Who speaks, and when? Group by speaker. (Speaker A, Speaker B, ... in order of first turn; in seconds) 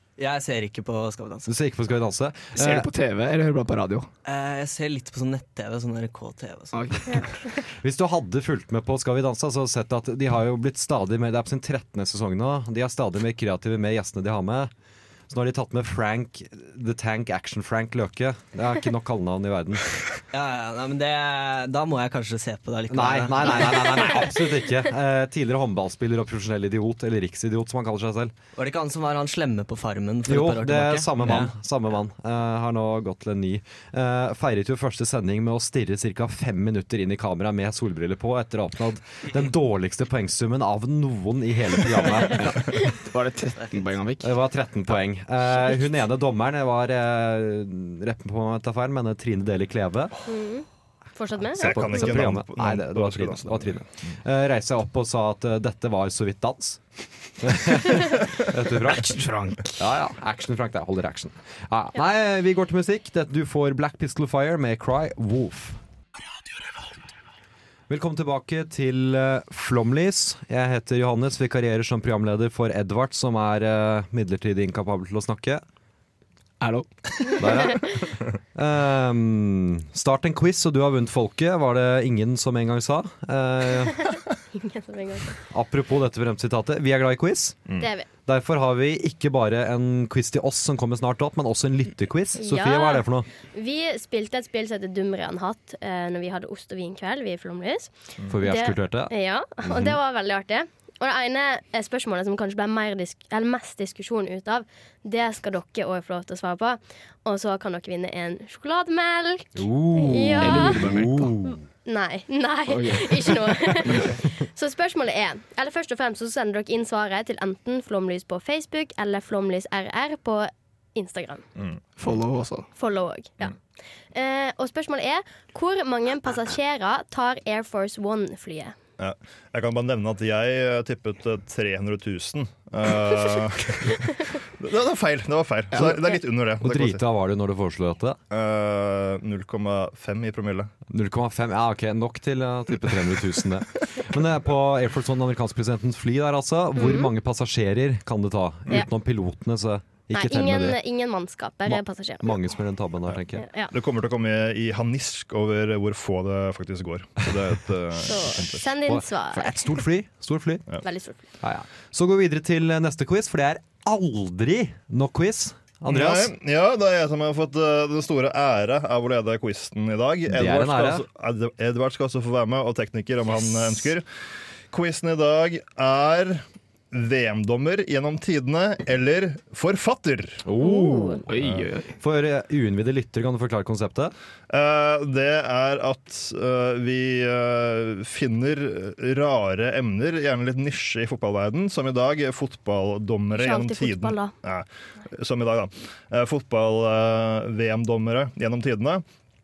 Speaker A: 0.2-1.5, 4.2-7.0, 20.3-24.1, 28.6-31.5
Speaker B: 1.5-2.9, 7.7-14.7, 15.3-19.9, 22.9-28.3, 30.3-42.9, 44.2-50.1, 51.6-56.8, 57.4-59.1, 59.8-65.8, 67.9-75.6, 77.4-84.0, 85.5-87.6, 88.2-93.3, 98.3-100.0, 109.5-111.6, 136.6-138.2, 140.9-150.8, 151.7-153.4, 158.8-160.7, 161.4-166.3, 170.3-171.1, 180.4-184.1
Speaker C: 2.5-4.1, 6.7-7.2, 42.3-44.3, 58.9-59.8, 76.6-77.5, 110.4-111.3, 112.7-114.2, 122.0-122.7, 181.3-181.9
Speaker D: 7.1-7.4, 50.3-52.1, 84.1-85.4, 87.8-88.1, 92.4-110.8, 111.8-121.4, 122.8-123.5, 124.1-128.7, 146.8-147.1, 150.1-152.4, 153.3-153.7, 158.0-159.7, 160.8-161.2, 180.6-181.2, 193.3-194.3
Speaker E: 51.5-54.1, 121.6-122.1, 129.0-137.0, 138.3-140.7, 153.7-158.7, 165.9-174.0, 174.7-180.4, 184.5-199.0